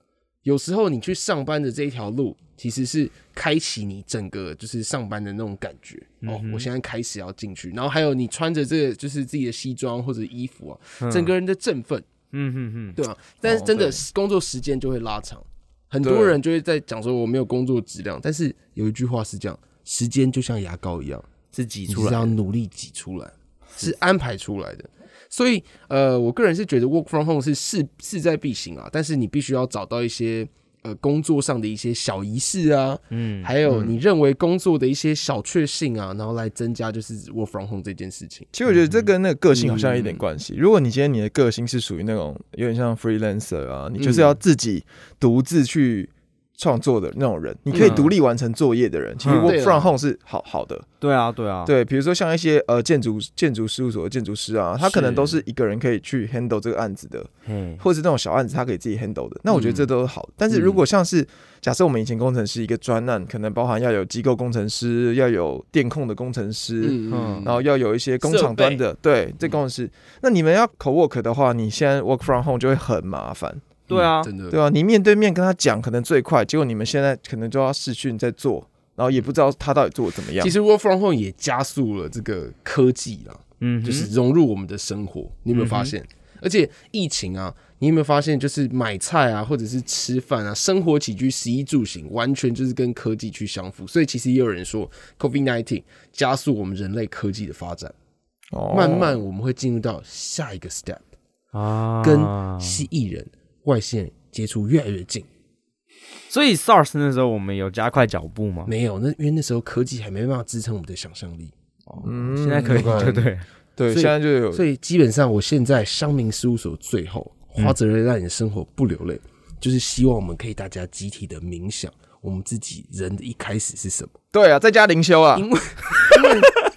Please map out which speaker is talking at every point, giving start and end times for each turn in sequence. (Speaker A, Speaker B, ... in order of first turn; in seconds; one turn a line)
Speaker A: 0.4-12.1
Speaker B: 6.2-6.7
Speaker B: 11.0-11.3
Speaker B: 12.3-13.0
Speaker A: 12.9-21.3
Speaker C: 13.4-14.0
Speaker C: 16.0-16.4
Speaker B: 21.5-22.3
Speaker A: 21.9-38.5
Speaker B: 33.1-33.5
Speaker C: 33.6-33.9
Speaker C: 38.5-50.9
Speaker A: 39.5-40.2
Speaker A: 44.0-44.3
Speaker A: 47.7-48.0
Speaker B: 47.7-48.1
Speaker B: 49.2-49.5
Speaker A: 49.3-49.9
Speaker B: 51.0-51.7
Speaker C: 51.6-80.5
Speaker B: 54.8-55.4
Speaker B: 57.5-57.8
Speaker A: 59.5-59.9
Speaker A: 60.5-60.8
Speaker A: 66.8-67.6
Speaker B: 67.1-67.5
Speaker A: 68.2-68.8
Speaker B: 73.9-74.3
Speaker A: 73.9-74.6
Speaker A: 80.4-97.9
Speaker B: 83.6-84.1
Speaker B: 85.5-85.9
Speaker C: 98.5-99.2
Speaker A: 98.7-101.1
Speaker B: 101.5-102.8
Speaker A: 102.0-105.3
Speaker B: 106.3-108.7
Speaker A: 108.7-111.5
Speaker B: 111.9-113.4
Speaker C: 112.0-113.2
Speaker A: 112.6-113.3
Speaker C: 113.8-114.6
Speaker A: 113.9-124.2
Speaker C: 124.3-125.5
Speaker A: 125.3-126.5